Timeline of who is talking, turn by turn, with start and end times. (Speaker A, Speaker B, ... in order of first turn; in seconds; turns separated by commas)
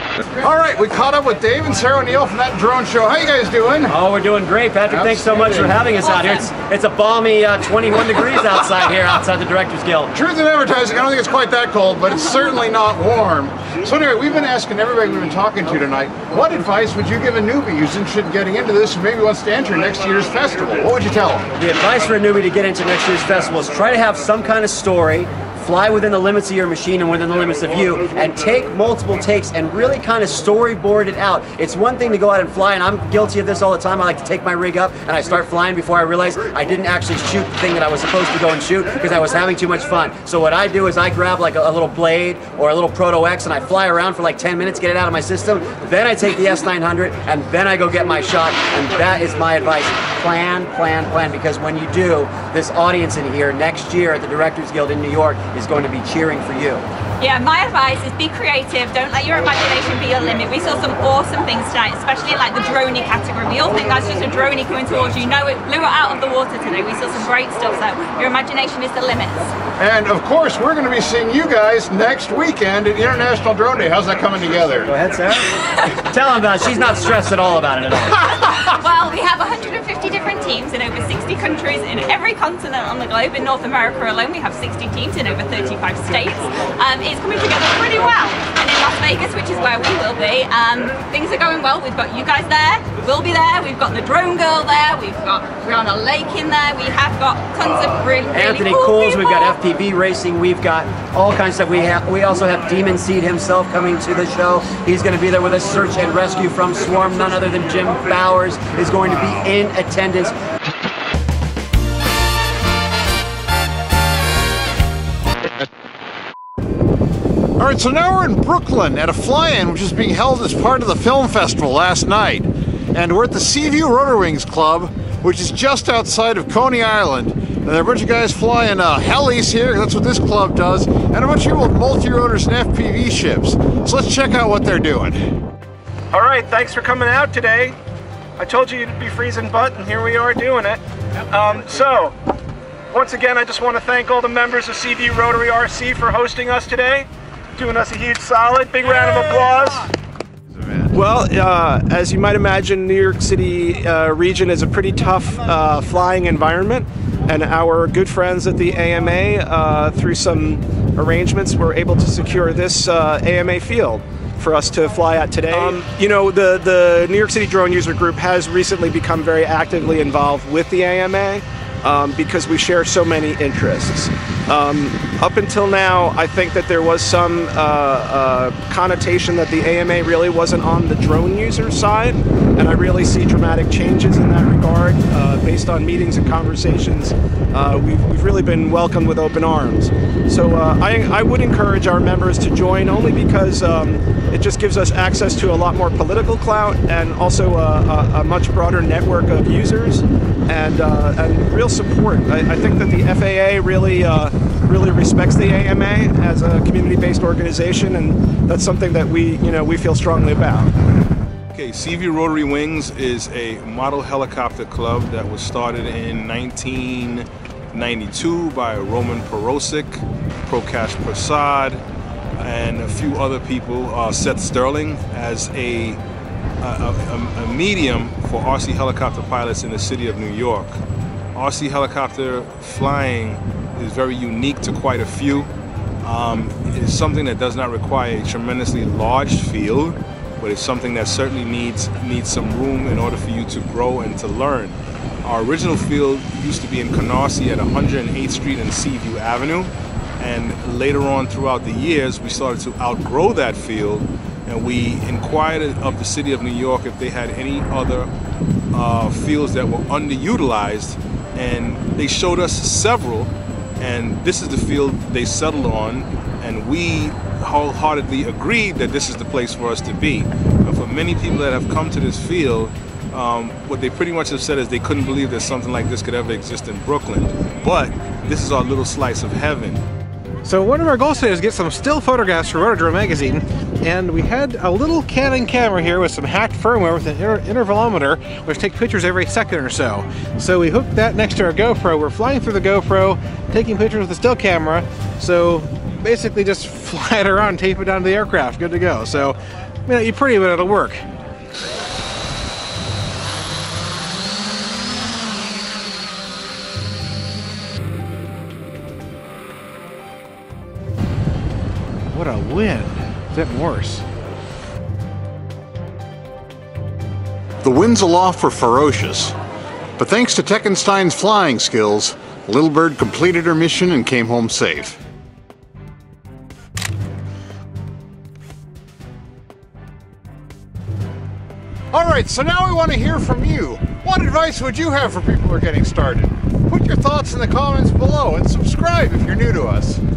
Speaker A: 0.3-4.0, Speaker B: 3.9-10.1, Speaker A: 4.8-5.8, Speaker C: 6.0-6.5, Speaker A: 10.1-21.5, Speaker B: 21.6-56.9, Speaker C: 57.2-69.5, Speaker A: 69.8-74.9, Speaker B: 74.8-78.4, Speaker C: 78.3-99.6, Speaker B: 98.3-110.3, Speaker A: 117.6-135.2, Speaker D: 136.1-137.7, Speaker D: 138.4-140.8, Speaker D: 141.3-142.1, Speaker D: 142.9-147.0, Speaker D: 147.6-149.9, Speaker D: 150.9-210.7, Speaker E: 211.5-221.8, Speaker E: 222.4-226.0, Speaker E: 226.6-230.8, Speaker E: 231.3-235.5, Speaker E: 236.0-258.1, Speaker E: 258.7-279.8, Speaker F: 280.4-301.0, Speaker F: 312.1-314.0, Speaker A: 317.6-319.4, Speaker A: 320.0-325.0, Speaker A: 331.9-340.0